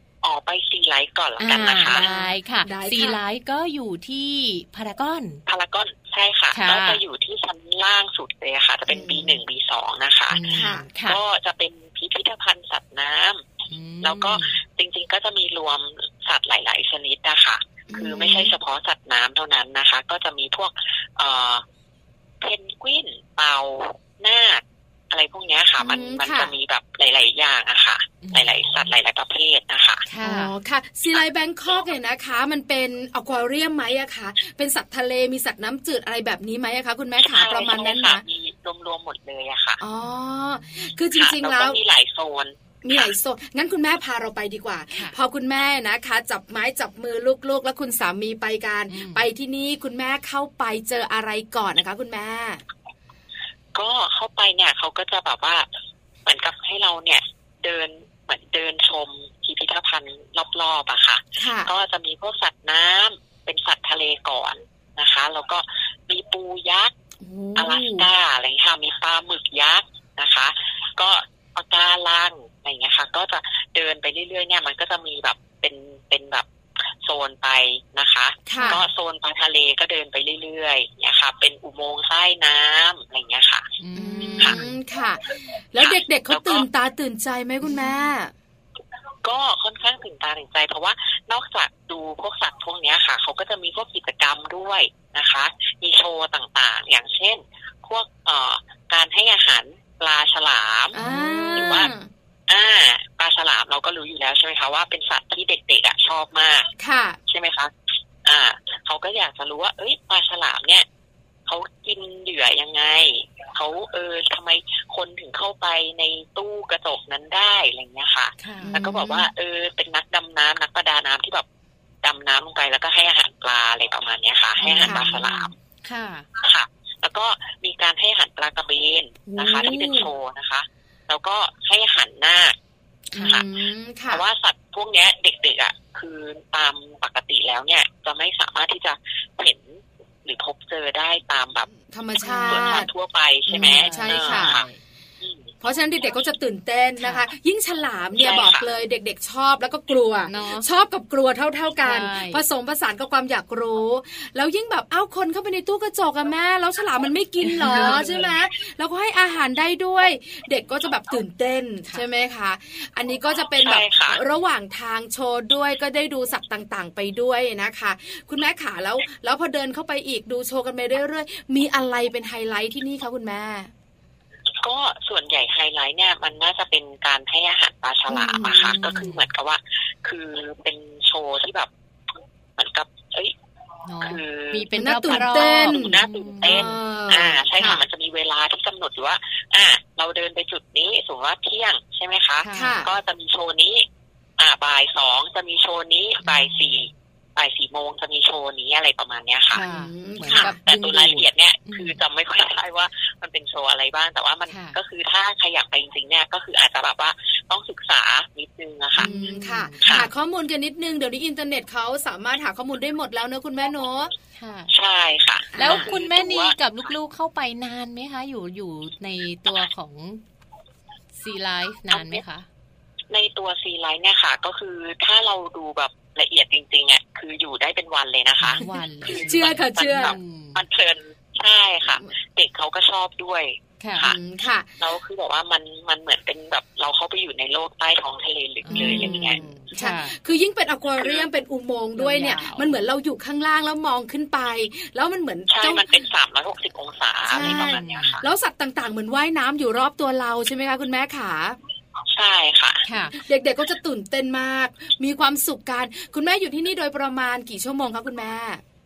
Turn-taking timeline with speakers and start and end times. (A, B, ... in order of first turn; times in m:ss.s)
0:00.2-0:02.1 A
0:01.4-0:05.4 B
0:01.9-0:03.2 C
0:05.5-0:10.4 A
0:06.5-0:07.0 B
0:08.9-0:09.4 C
0:10.3-0:11.2 B
0:10.5-0:10.9 C
0:11.0-0:13.4 A
0:13.7-0:14.6 B
0:14.0-0:21.6 A
0:17.9-0:18.5 C
0:22.4-0:30.0 A
0:25.8-0:26.5 C
0:28.2-0:28.9 B
0:30.1-0:30.5 B
0:30.2-0:38.2 C
0:37.2-0:39.8 A
0:39.8-0:41.8 C
0:41.2-0:43.1 A
0:42.8-0:52.6 C
0:48.9-0:49.3 B
0:53.8-0:55.7 A
0:56.2-1:06.9 A
1:01.4-1:01.7 C
1:07.2-1:08.0 C
1:07.6-1:16.5 A
1:17.0-1:23.7 A
1:18.5-1:18.8 C
1:23.8-1:24.8 B
1:24.0-1:28.3 C
1:25.8-1:26.7 A
1:27.6-1:28.1 B
1:29.2-1:41.0 A
1:40.9-1:41.9 B
1:40.9-1:42.1 C
1:41.5-1:41.9 A
1:42.5-1:46.7 A
1:46.8-1:47.2 C
1:47.3-1:47.7 A
1:48.2-1:50.9 A
1:51.5-2:01.4 A
1:58.4-1:58.8 B
1:58.6-1:59.2 C
2:02.0-2:05.5 A
2:04.6-2:06.3 B
2:04.8-2:05.1 C
2:06.4-2:12.6 A
2:09.3-2:10.1 B
2:13.1-2:14.2 C
2:13.1-2:13.4 B
2:13.2-2:13.5 A
2:14.1-2:21.7 A
2:21.7-2:22.9 C
2:22.2-2:22.9 B
2:22.4-2:24.7 A
2:23.5-2:24.6 C
2:23.6-2:24.8 B
2:25.2-2:25.5 A
2:25.6-2:53.7 C
2:27.0-2:27.2 B
2:28.2-2:28.7 A
2:30.3-2:30.7 B
2:31.8-2:32.4 B
2:37.4-2:38.3 B
2:43.6-2:44.2 A
2:54.6-3:01.7 A
2:58.1-2:58.8 C
2:58.5-2:59.3 B
3:02.6-3:03.3 A
3:03.9-3:06.7 B
3:04.0-3:13.9 A
3:04.8-3:07.8 C
3:12.4-3:12.8 B
3:12.5-3:12.9 C
3:14.4-3:19.6 A
3:16.2-3:16.7 B
3:19.5-3:20.6 C
3:19.6-3:22.0 B
3:20.3-3:29.1 A
3:24.5-3:24.8 B
3:29.0-3:30.1 B
3:29.0-3:34.1 C
3:34.4-3:34.7 B
3:34.7-3:36.9 A
3:35.5-3:36.0 C
3:35.6-3:40.2 B
3:41.2-3:42.5 B
3:41.9-3:42.2 A
3:43.1-3:54.2 A
3:48.4-3:50.6 B
3:49.0-3:50.2 C
3:53.8-3:54.1 B
3:54.0-3:54.7 C
3:54.8-3:59.6 A
3:58.6-4:00.2 B
3:58.7-4:05.8 C
4:01.0-4:01.3 A
4:02.0-4:02.8 B
4:05.5-4:08.3 A
4:07.3-4:11.6 C
4:07.4-4:08.2 B
4:12.1-4:12.8 A
4:12.8-4:13.2 B
4:13.1-4:18.6 C